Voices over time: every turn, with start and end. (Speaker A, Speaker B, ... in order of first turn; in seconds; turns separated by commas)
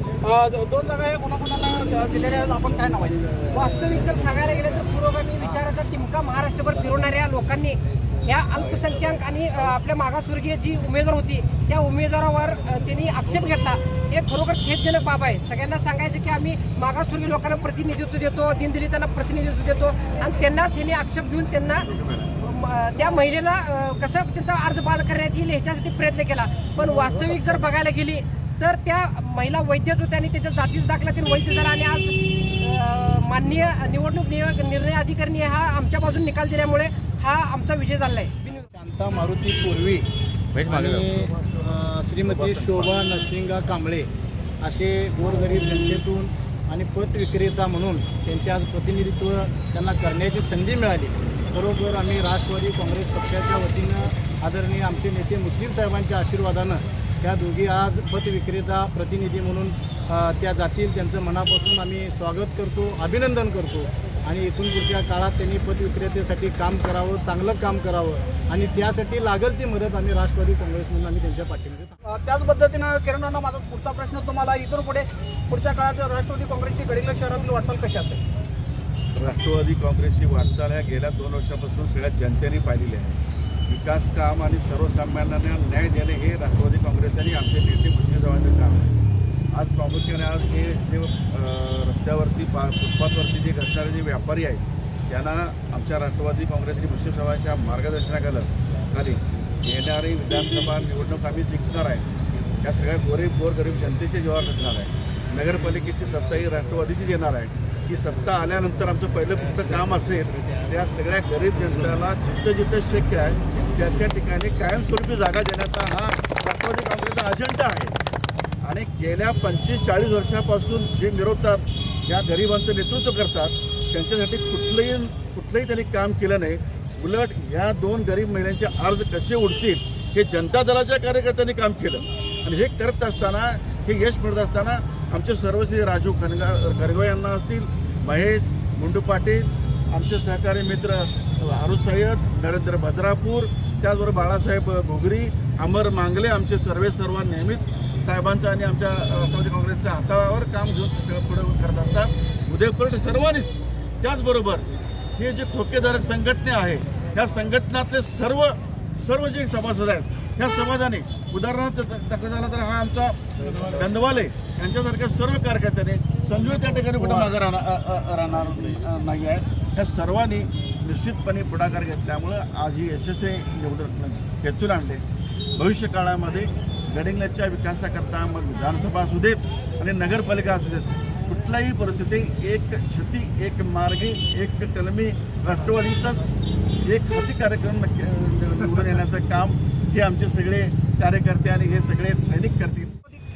Speaker A: 0.2-3.2, Speaker B: 3.5-21.9, Speaker C: 21.8-22.3, Speaker B: 22.4-38.7, Speaker D: 38.7-44.1, Speaker C: 42.2-42.9, Speaker D: 44.6-72.0, Speaker A: 72.0-78.2, Speaker C: 79.2-88.9, Speaker C: 89.5-102.1, Speaker C: 102.6-118.0, Speaker C: 118.6-154.7, Speaker C: 155.2-175.0, Speaker C: 175.6-186.2, Speaker C: 186.8-192.9